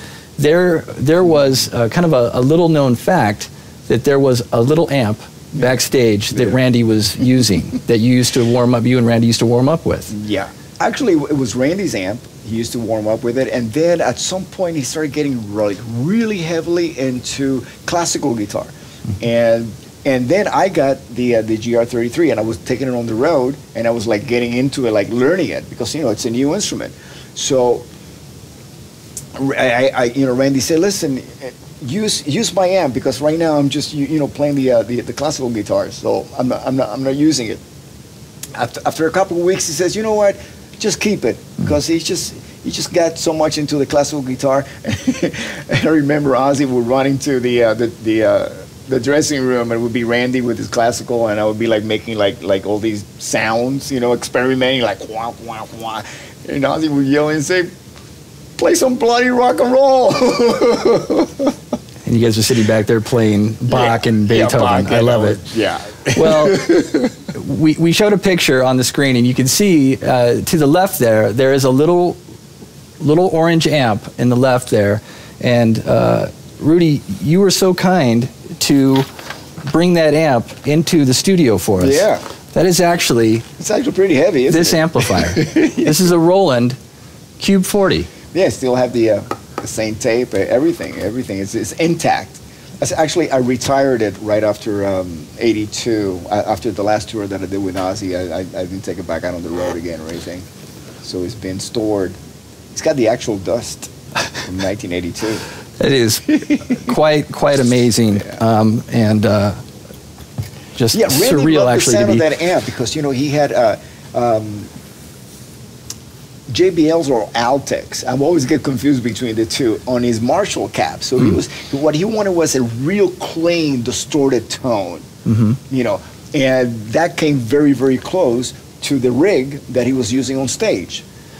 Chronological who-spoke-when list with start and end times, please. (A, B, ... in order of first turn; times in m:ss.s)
0:00.4-0:10.1 A
0:10.1-0:27.8 B
0:29.3-0:37.6 B
0:38.5-0:57.7 B
0:58.6-1:01.5 B
1:02.0-1:05.4 A
1:03.7-1:07.1 B
1:06.1-1:06.8 A
1:07.3-1:12.2 A
1:13.0-1:19.1 A
1:19.6-1:23.4 A
1:21.8-1:22.2 B
1:23.6-1:25.9 B
1:24.5-1:26.8 A
1:27.4-1:28.1 A
1:28.3-1:40.4 B
1:41.0-1:42.2 B
1:42.7-1:45.4 B
1:45.8-1:49.6 A
1:50.8-1:52.2 A
1:50.9-1:54.7 B
1:56.5-2:05.0 B
2:05.2-2:05.6 A
2:05.7-2:11.0 B